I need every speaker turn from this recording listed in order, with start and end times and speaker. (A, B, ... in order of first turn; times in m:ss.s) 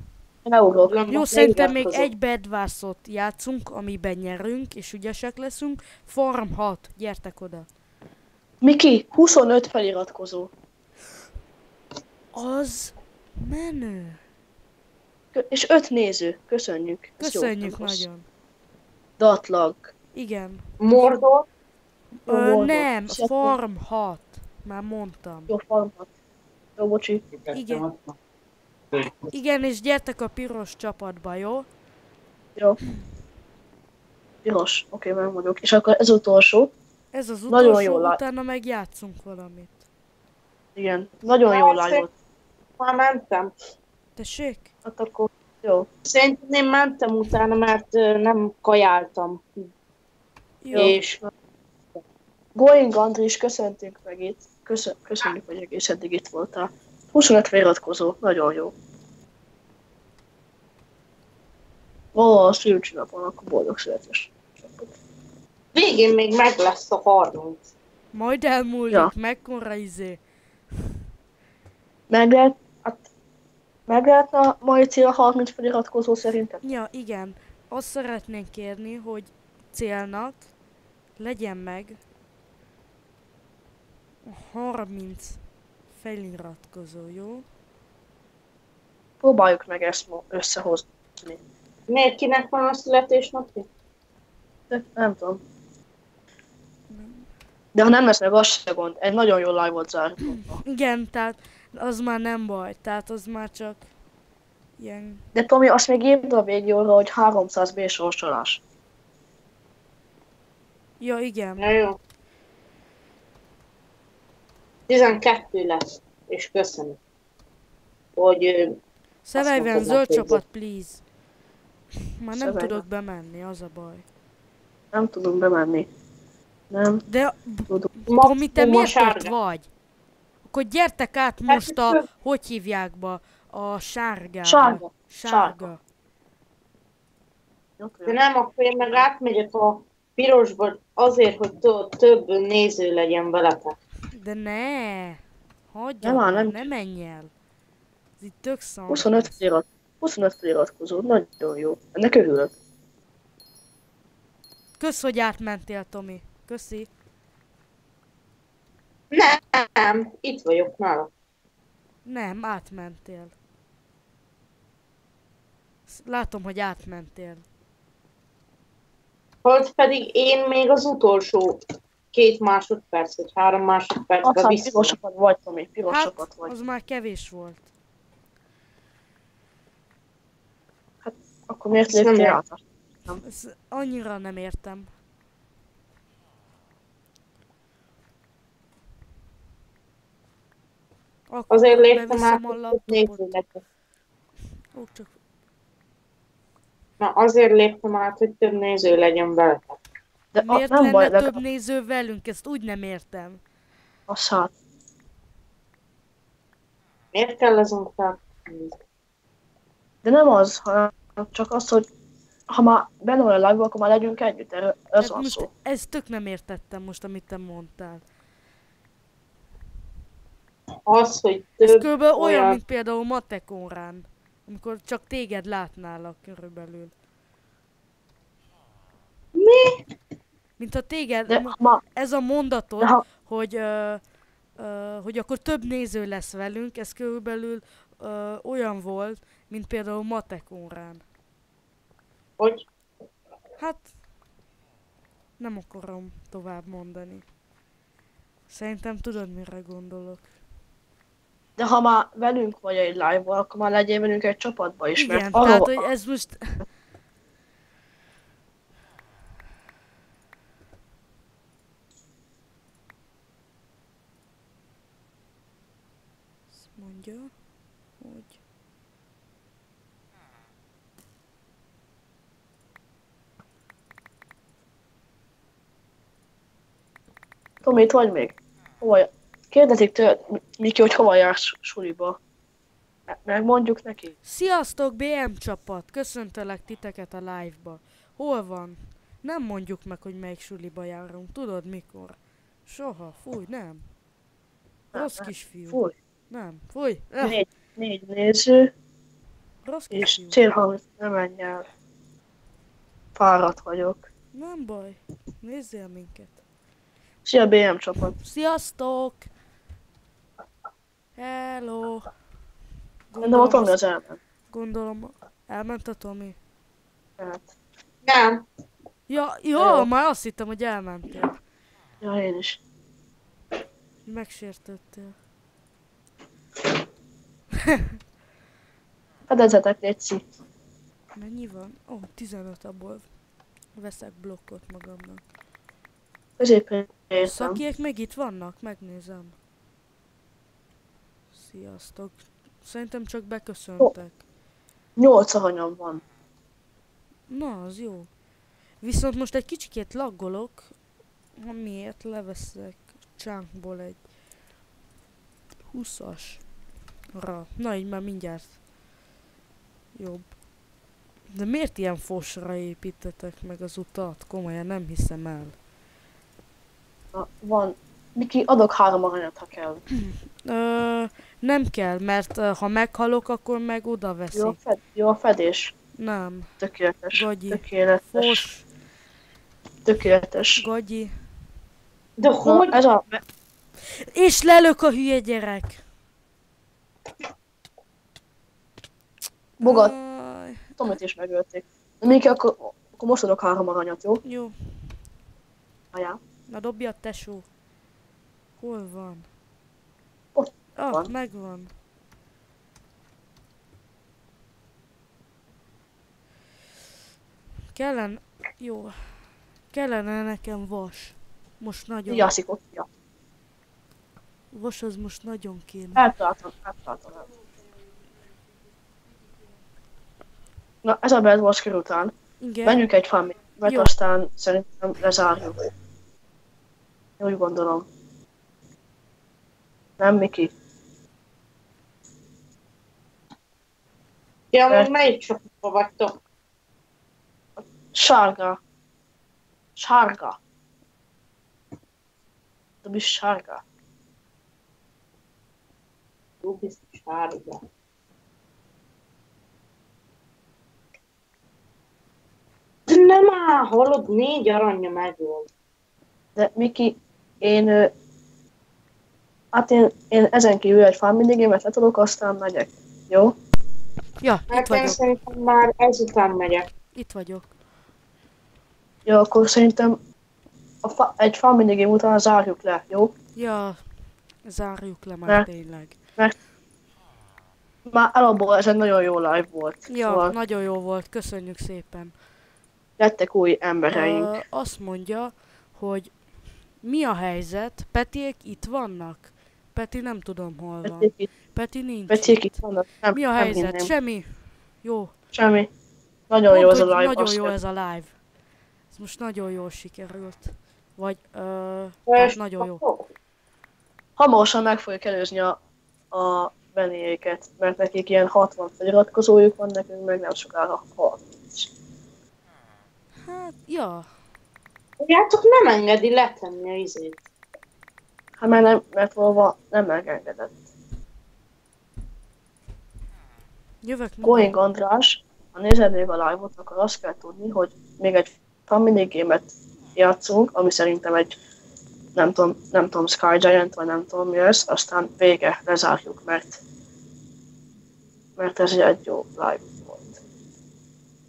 0:00.4-0:01.0 A
0:00.8-0:02.1 B
0:01.1-0:07.7 C
0:08.6-0:10.5 A
0:12.3-0:14.2 C
0:15.3-0:18.0 A
0:17.2-0:18.3 C
0:19.2-0:19.9 A
0:20.1-0:20.7 C
0:20.8-0:21.5 B
0:22.2-0:23.6 A
0:22.3-0:25.5 C
0:25.5-0:26.1 A
0:26.8-0:27.3 A
0:27.5-0:28.1 B
0:27.5-0:27.9 C
0:29.3-0:31.7 C
0:34.4-0:36.7 A
0:37.1-0:39.8 C
0:37.5-0:38.2 A
0:40.8-0:42.1 A
0:41.5-0:42.0 B
0:42.8-0:43.5 B
0:44.2-0:44.7 C
0:44.8-0:45.9 A
0:46.0-0:49.6 B
0:50.6-0:51.0 C
0:50.7-0:51.0 A
0:50.8-0:51.2 B
0:52.6-0:58.7 A
1:02.1-1:04.9 A
1:05.7-1:07.7 B
1:08.1-1:10.2 C
1:12.1-1:13.1 A
1:13.9-1:16.6 A
1:16.6-1:20.5 C
1:21.2-1:22.0 C
1:24.2-1:25.4 C
1:26.0-1:27.5 C
1:29.2-1:31.4 A
1:31.9-1:33.7 B
1:34.7-1:35.4 A
1:36.9-1:37.3 C
1:37.8-1:40.6 A
1:40.2-1:43.8 C
1:44.8-1:45.3 C
1:45.4-1:48.6 A
1:51.0-1:51.6 C
1:51.6-1:52.0 B
1:54.9-1:57.0 B
1:58.2-1:58.8 B
1:59.3-2:01.0 C
1:59.4-2:00.4 B
2:02.2-2:04.0 C
2:02.3-2:02.8 A
2:04.9-2:05.9 A
2:06.7-2:07.0 A
2:07.1-2:09.7 C
2:08.1-2:09.3 B
2:10.4-2:15.8 C
2:11.5-2:12.0 B
2:14.4-2:15.7 A
2:17.8-2:18.2 A
2:18.1-2:23.8 B
2:24.1-2:27.3 C
2:26.0-2:26.6 A
2:28.2-2:29.4 C
2:28.9-2:32.5 A
2:34.8-2:36.9 C
2:39.1-2:41.1 B
2:42.0-2:43.3 C
2:45.9-2:47.4 C
2:49.4-2:51.6 B
2:52.1-2:55.0 B
2:54.2-2:56.5 A
2:55.9-2:57.7 C
3:01.0-3:03.2 A
3:01.9-3:02.4 B
3:03.2-3:04.9 C
3:11.3-3:13.4 C
3:11.5-3:13.6 B
3:14.7-3:15.1 C
3:17.0-3:19.8 B
3:20.3-3:21.4 A
3:20.4-3:23.4 C
3:24.1-3:24.5 A
3:27.1-3:28.8 B
3:30.0-3:31.9 A
3:32.5-3:35.5 A
3:35.0-3:38.0 C
3:40.9-3:42.6 B
3:41.6-3:46.9 C
3:49.4-3:49.9 B
3:50.6-3:54.0 C
3:51.3-3:51.8 A
3:54.6-4:01.0 C
4:02.4-4:02.6 B
4:03.6-4:03.9 C
4:05.4-4:07.2 C
4:08.5-4:10.3 C
4:11.6-4:15.8 A
4:15.0-4:16.6 C
4:26.7-4:27.3 C
4:28.0-4:28.4 C
4:37.6-4:42.2 A
4:43.1-4:44.1 A
4:44.2-4:53.9 C
4:54.9-4:55.9 A
4:54.9-4:57.4 C
4:57.2-4:58.7 A
4:59.6-5:00.4 C
4:59.9-5:01.7 A
5:03.2-5:04.0 A
5:04.3-5:06.4 C
5:07.2-5:08.2 A
5:08.1-5:09.3 C
5:11.2-5:12.1 C
5:13.1-5:13.8 C
5:13.2-5:14.2 A
5:14.5-5:16.4 C
5:17.2-5:17.5 A
5:18.0-5:18.4 B
5:19.1-5:21.4 C
5:19.6-5:19.9 A
5:22.0-5:22.6 A
5:24.1-5:25.2 C
5:29.3-5:30.2 A
5:31.2-5:33.1 C
5:33.8-5:35.2 C
5:36.4-5:37.6 A
5:37.2-5:39.4 C
5:41.4-5:44.2 C
5:45.0-5:46.0 A
5:47.3-5:48.1 C
5:48.8-5:50.7 C
5:51.4-5:54.0 C
5:55.7-5:56.4 C
5:57.1-5:58.6 C
6:00.0-6:00.4 C
6:01.3-6:05.6 C
6:07.1-6:09.8 A
6:09.9-6:14.6 C
6:14.3-6:15.7 A
6:16.0-6:16.5 C
6:16.6-6:18.4 A
6:17.1-6:18.7 C
6:19.8-6:20.6 A
6:20.6-6:21.2 C
6:22.2-6:22.8 B
6:22.4-6:23.2 A
6:23.8-6:25.8 C
6:29.6-6:29.9 A
6:29.6-6:30.9 C
6:30.8-6:34.2 A
6:34.2-6:35.0 C
6:35.9-6:36.2 A
6:36.5-6:37.5 C
6:38.6-6:39.3 C
6:40.4-6:41.1 A
6:40.8-6:41.7 C
6:47.7-6:52.3 C
6:52.1-6:52.9 A
6:54.5-6:56.1 C
6:56.0-6:57.2 A
7:00.8-7:02.1 A
7:02.4-7:02.8 C
7:02.6-7:05.6 A
7:03.6-7:03.9 C
7:07.2-7:07.9 A
7:10.0-7:10.5 A
7:14.5-7:16.2 B
7:17.6-7:18.6 A
7:19.8-7:20.4 A
7:22.8-7:23.6 A
7:26.4-7:27.6 B
7:32.9-7:35.5 B
7:36.4-7:37.9 A
7:39.5-7:43.4 A
7:44.2-7:45.0 C
7:44.5-7:46.7 B
7:46.9-7:47.5 C
7:49.1-7:50.0 A
7:50.8-7:53.1 A
7:53.4-7:53.8 C
7:54.4-7:56.0 C
7:57.9-8:00.3 A
7:59.9-8:02.1 C
8:03.0-8:04.3 A
8:03.9-8:06.1 C
8:06.8-8:12.6 C
8:10.8-8:11.3 A
8:12.1-8:13.9 A
8:13.1-8:15.2 C
8:15.3-8:15.7 A
8:16.3-8:17.6 A
8:16.5-8:18.1 C
8:18.9-8:22.8 C
8:22.1-8:23.0 B
8:24.2-8:25.6 A
8:26.1-8:31.7 A
8:33.2-8:34.1 C
8:35.0-8:37.2 B
8:38.4-8:40.6 A
8:43.8-8:44.5 C
8:44.2-8:51.4 A
8:52.2-8:56.6 A
8:58.4-9:00.2 A